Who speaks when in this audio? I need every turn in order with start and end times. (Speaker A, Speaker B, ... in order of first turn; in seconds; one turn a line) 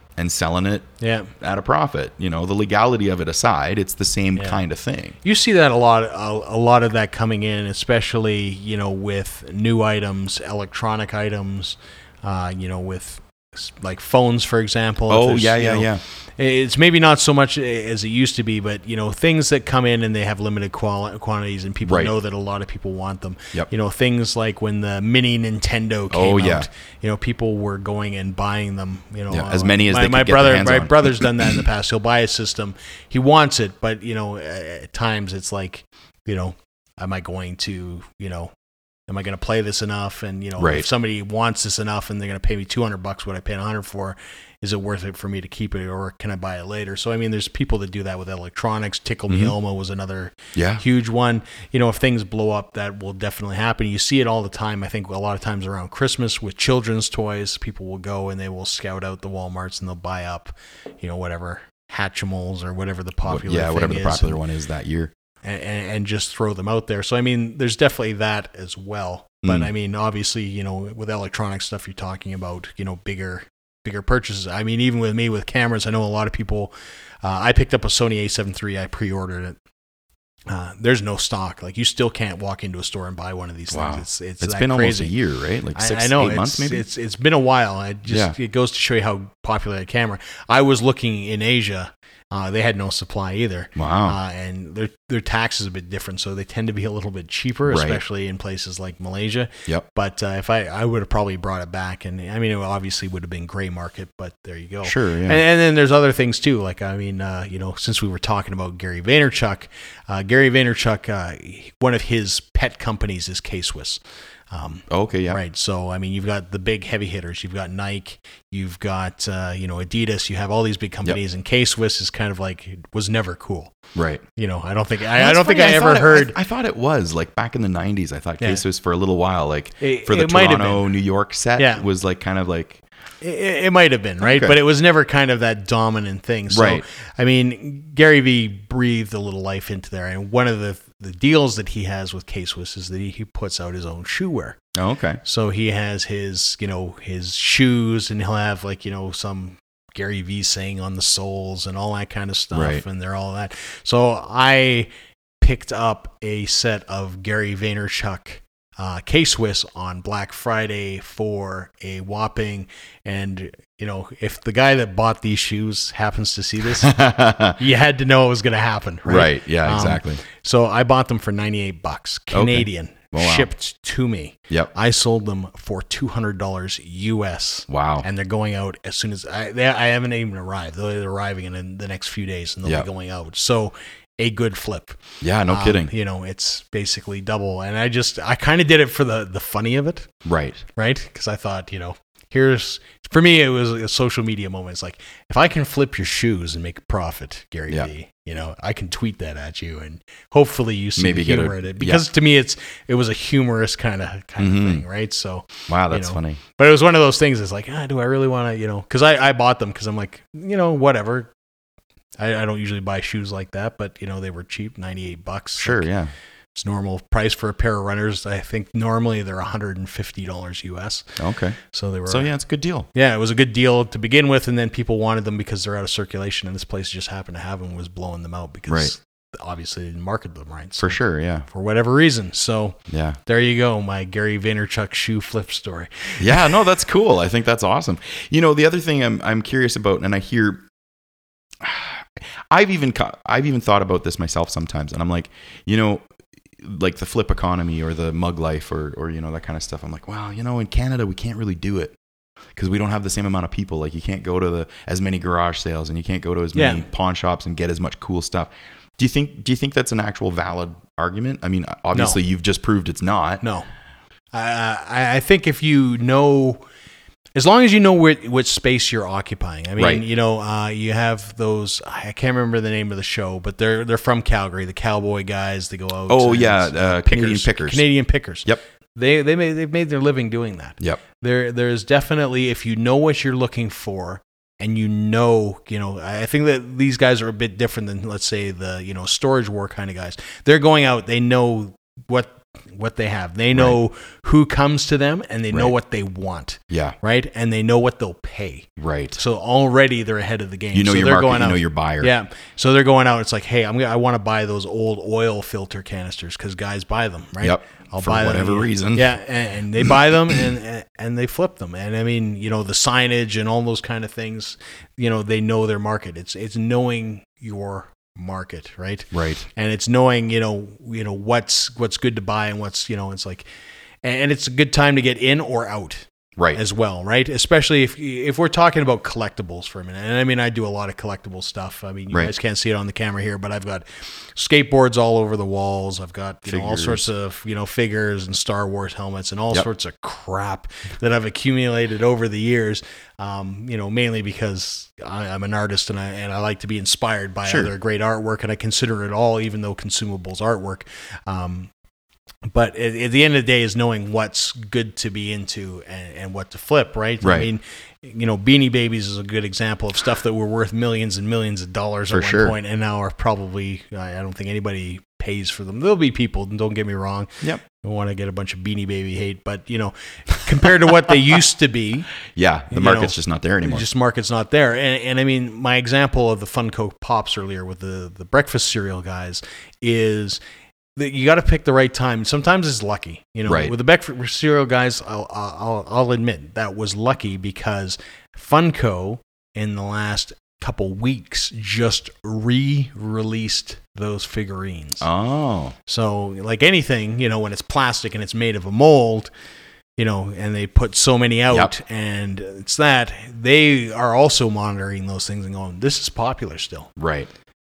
Speaker A: 0.2-0.9
Speaker B: 1.0-1.3
Speaker A: 1.4-5.2
Speaker B: 5.2-38.5
Speaker A: 15.1-16.0
Speaker A: 21.8-22.1
Speaker A: 26.1-26.7
Speaker A: 29.3-31.6
Speaker B: 39.1-64.4
Speaker A: 40.6-40.9
Speaker A: 49.3-49.5
Speaker A: 50.5-50.8
Speaker A: 63.2-65.1
Speaker B: 65.4-79.6
Speaker A: 69.4-69.7
Speaker B: 80.5-85.1
Speaker A: 83.7-86.8
Speaker B: 85.7-123.7
Speaker A: 88.1-88.3
Speaker A: 93.8-94.2
Speaker A: 97.7-98.0
Speaker A: 104.8-105.4
Speaker A: 114.9-115.4
Speaker A: 123.9-124.2
Speaker B: 124.3-126.3
Speaker A: 125.1-132.8
Speaker B: 129.8-130.9
Speaker B: 131.6-131.8
Speaker B: 133.2-144.6
Speaker A: 134.2-134.6
Speaker A: 136.5-136.8
Speaker A: 144.7-145.2
Speaker B: 145.2-154.9
Speaker A: 152.5-152.8
Speaker B: 155.4-166.9
Speaker A: 166.7-167.6
Speaker B: 167.5-190.1
Speaker A: 169.0-170.2
Speaker A: 172.3-173.5
Speaker A: 177.7-178.1
Speaker A: 185.2-185.9
Speaker A: 190.2-190.6
Speaker B: 190.7-211.3
Speaker A: 201.0-202.0
Speaker A: 204.4-204.8
Speaker A: 205.7-206.4
Speaker B: 212.2-215.9
Speaker A: 215.6-216.1
Speaker B: 216.5-222.3
Speaker A: 221.2-222.9
Speaker B: 222.9-236.6
Speaker A: 228.7-228.9
Speaker A: 230.8-231.4
Speaker A: 232.9-233.2
Speaker A: 236.2-240.6
Speaker A: 241.6-246.1
Speaker A: 246.6-251.9
Speaker A: 252.6-263.4
Speaker B: 256.5-256.9
Speaker B: 263.4-263.7
Speaker B: 264.3-266.6
Speaker B: 267.3-323.5
Speaker A: 269.8-270.0
Speaker A: 276.1-277.8
Speaker A: 293.5-293.8
Speaker A: 296.7-296.9
Speaker A: 298.8-299.2
Speaker A: 300.7-302.1
Speaker A: 307.4-309.1
Speaker A: 319.1-319.4
Speaker B: 324.0-351.7
Speaker A: 336.5-337.1
Speaker A: 347.4-347.7
Speaker B: 352.5-372.1
Speaker A: 357.2-357.5
Speaker A: 362.1-362.6
Speaker A: 372.3-373.9
Speaker B: 372.7-380.4
Speaker B: 380.9-395.1
Speaker A: 383.4-383.7
Speaker A: 395.0-395.8
Speaker B: 395.9-399.3
Speaker B: 400.0-406.9
Speaker A: 407.0-407.3